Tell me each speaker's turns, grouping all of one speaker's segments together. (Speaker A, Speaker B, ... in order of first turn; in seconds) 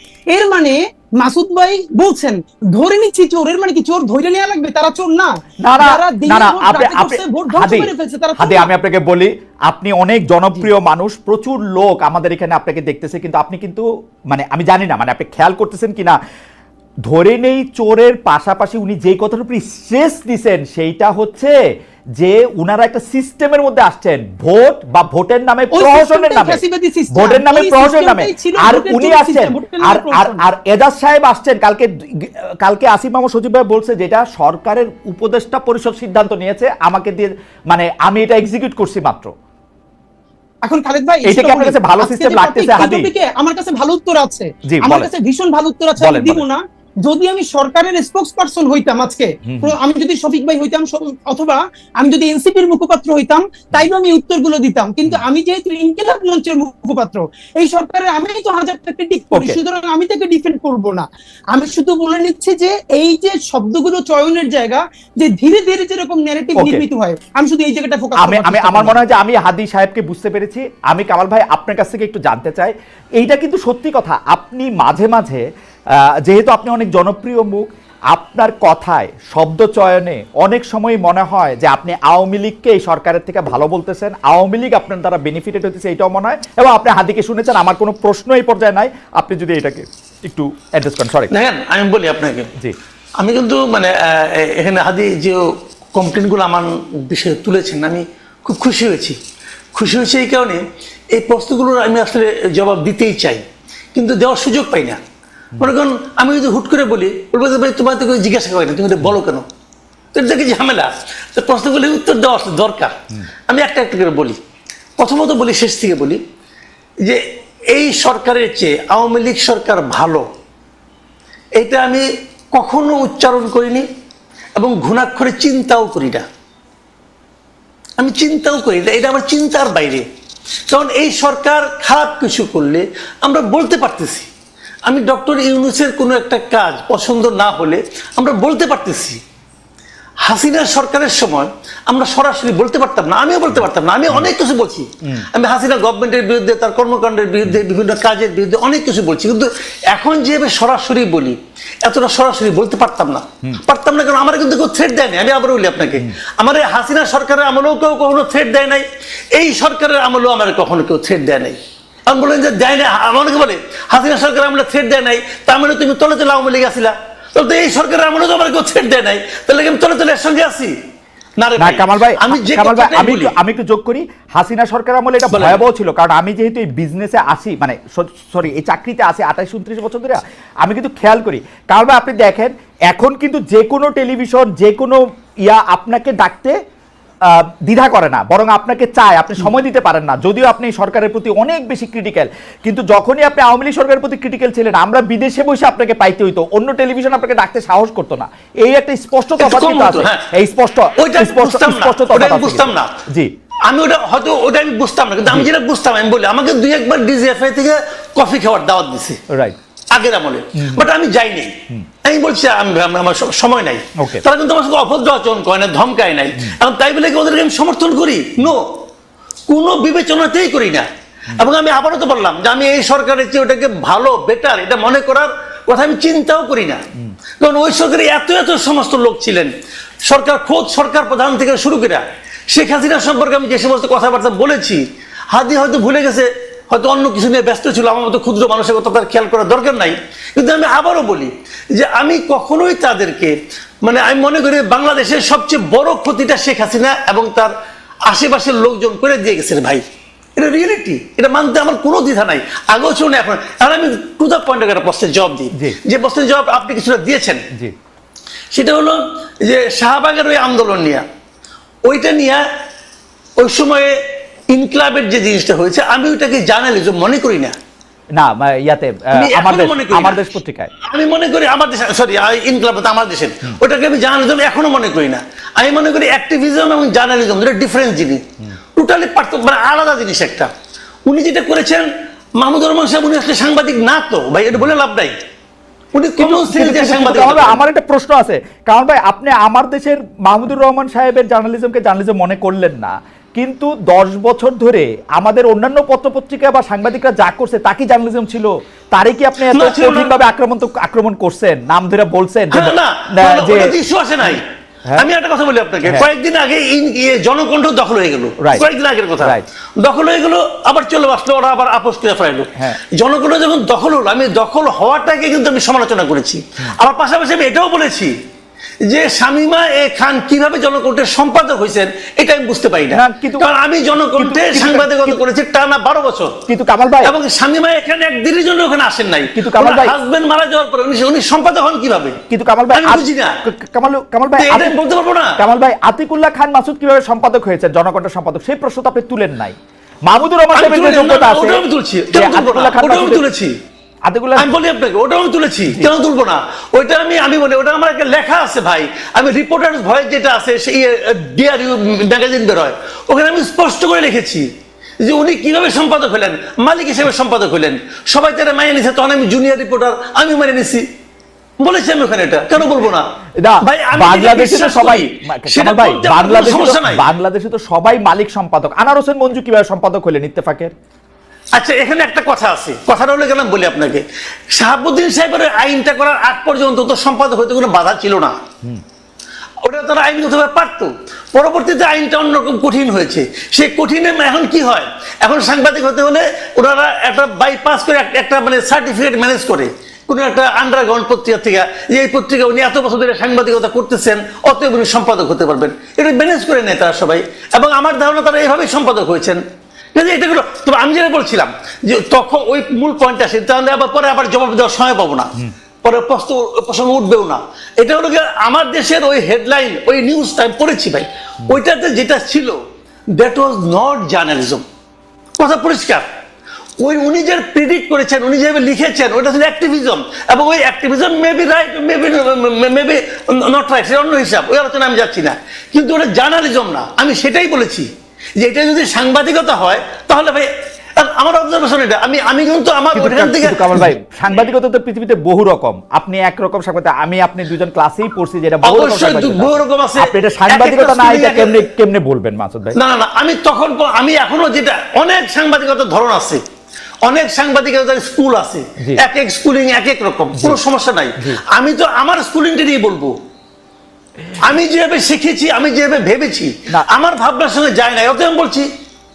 Speaker A: 0.3-8.7, 25.7-30.4, 40.6-69.0
Speaker B: 5.6-16.2, 17.1-21.5, 22.2-26.6, 27.1-39.3, 41.2-43.1, 44.7-45.1, 46.0-46.4, 49.5-49.8, 59.3-59.6, 66.6-66.8, 68.2-91.3, 171.6-186.6, 187.2-203.3, 209.3-209.6, 210.6-210.9, 214.0-214.2, 268.1-270.7, 286.2-305.1, 308.4-308.6, 309.2-309.5, 322.9-323.5, 324.2-325.2, 326.5-327.1, 329.3-329.9, 332.3-334.8, 335.4-341.6, 342.1-343.2, 344.1-344.5, 363.4-370.7, 432.9-442.8
Speaker C: 91.3-92.5, 93.2-99.2, 99.8-105.0, 105.6-109.4, 110.1-112.9, 113.5-114.4, 115.0-116.2, 117.0-120.2, 121.6-123.9, 124.6-126.2, 128.0-130.1, 130.7-134.3, 134.9-139.2, 140.2-170.8, 171.4-173.3, 175.3-175.6, 199.4-200.3, 201.0-202.9, 203.7-209.2, 209.9-218.8, 219.5-226.8, 227.4-229.5, 230.1-247.5, 248.1-249.8, 250.4-257.5, 258.5-261.0, 261.8-262.4, 263.4-267.6, 269.1-270.2, 270.8-278.2, 278.8-280.5, 281.1-285.1, 285.9-287.6, 299.5-300.1, 302.5-304.4, 305.0-318.1, 318.8-326.4, 327.0-332.2, 332.7-333.4, 334.4-335.4, 340.6-343.5, 344.4-354.5, 355.0-360.9, 361.6-363.1, 363.6-367.1, 371.5-378.4, 379.6-399.4, 399.9-412.6, 413.1-414.6, 415.4-416.1, 416.8-433.9, 438.6-441.7, 442.7-446.4, 447.0-453.1, 454.4-458.7